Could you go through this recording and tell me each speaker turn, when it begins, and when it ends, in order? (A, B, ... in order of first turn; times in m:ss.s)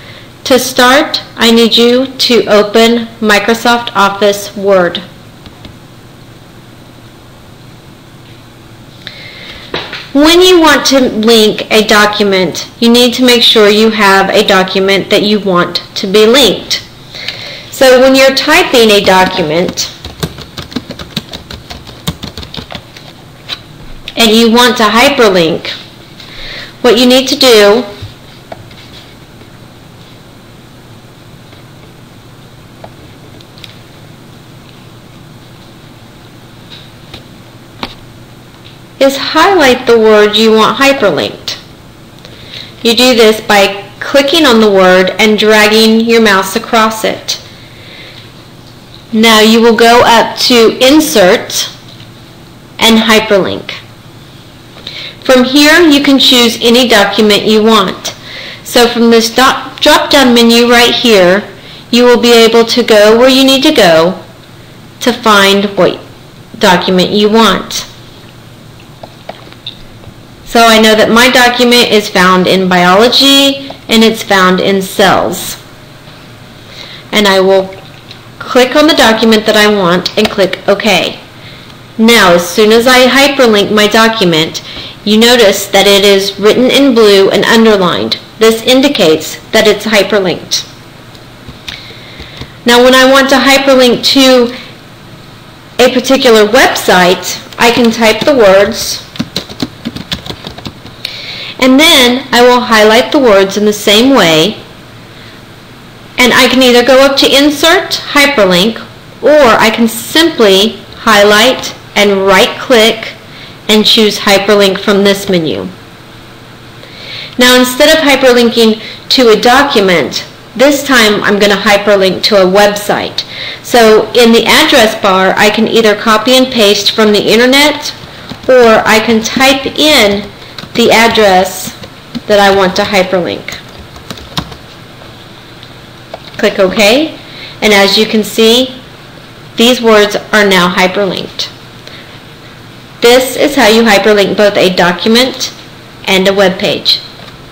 0:00.4-0:05.0 A
0:10.1-0:16.8 A
0:17.7-0:19.9 A
0:24.2-0:25.8 A
0:26.8-0:27.9 A
0:39.0-0:41.6 A
0:42.8-0:47.4 A
0:49.1-0:51.7 A
0:52.8-0:53.8 A
0:55.2-1:04.2 A
1:05.0-1:06.0 A
1:06.6-1:07.9 A
1:10.5-1:15.6 A
1:17.1-1:17.8 A
1:18.4-1:21.2 A
1:22.0-1:30.7 A
1:32.6-1:34.5 A
1:35.8-1:39.0 A
1:41.6-1:44.6 A
1:46.2-1:53.2 A
1:53.7-1:55.7 A
1:57.4-2:08.0 A
2:08.5-2:11.8 A
2:12.3-2:13.6 A
2:16.4-2:18.8 A
2:19.6-2:21.5 A
2:23.0-2:27.0 A